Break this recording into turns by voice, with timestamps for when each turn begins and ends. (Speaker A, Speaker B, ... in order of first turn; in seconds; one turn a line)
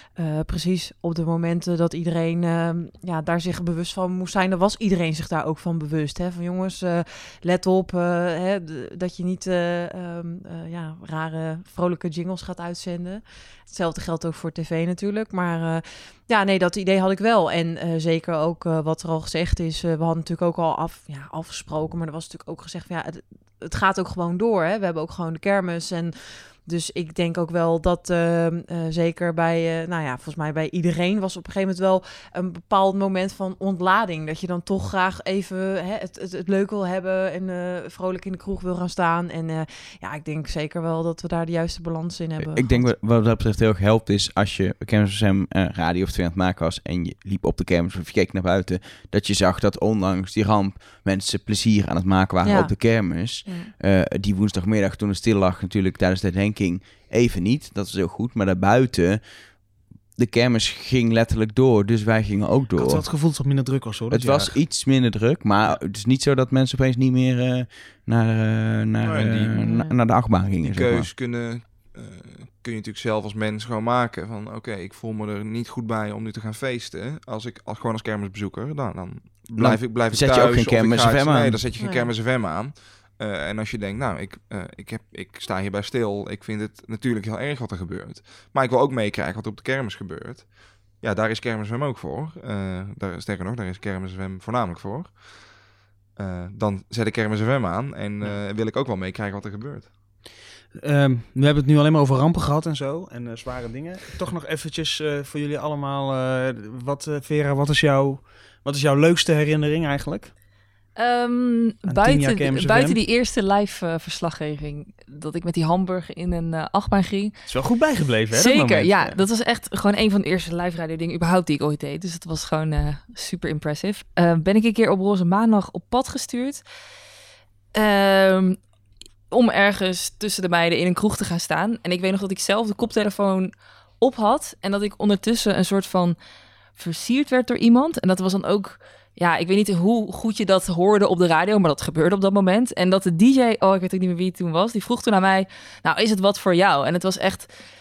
Speaker A: 0.2-42.9
Speaker B: 42.4-59.5
Speaker A: 52.4-53.7
Speaker B: 60.2-63.0
Speaker C: 62.8-64.6
Speaker B: 64.1-71.1
Speaker D: 69.0-69.5
Speaker A: 69.6-69.9
Speaker D: 70.6-95.5
Speaker B: 79.6-81.6
Speaker A: 81.8-82.1
Speaker D: 96.2-99.9
Speaker C: 100.8-110.3
Speaker E: 111.0-117.5
Speaker C: 111.9-113.0
Speaker C: 117.5-119.2
Speaker E: 118.3-126.6
Speaker E: 127.8-128.6
Speaker E: 129.3-136.2
Speaker E: 136.8-147.5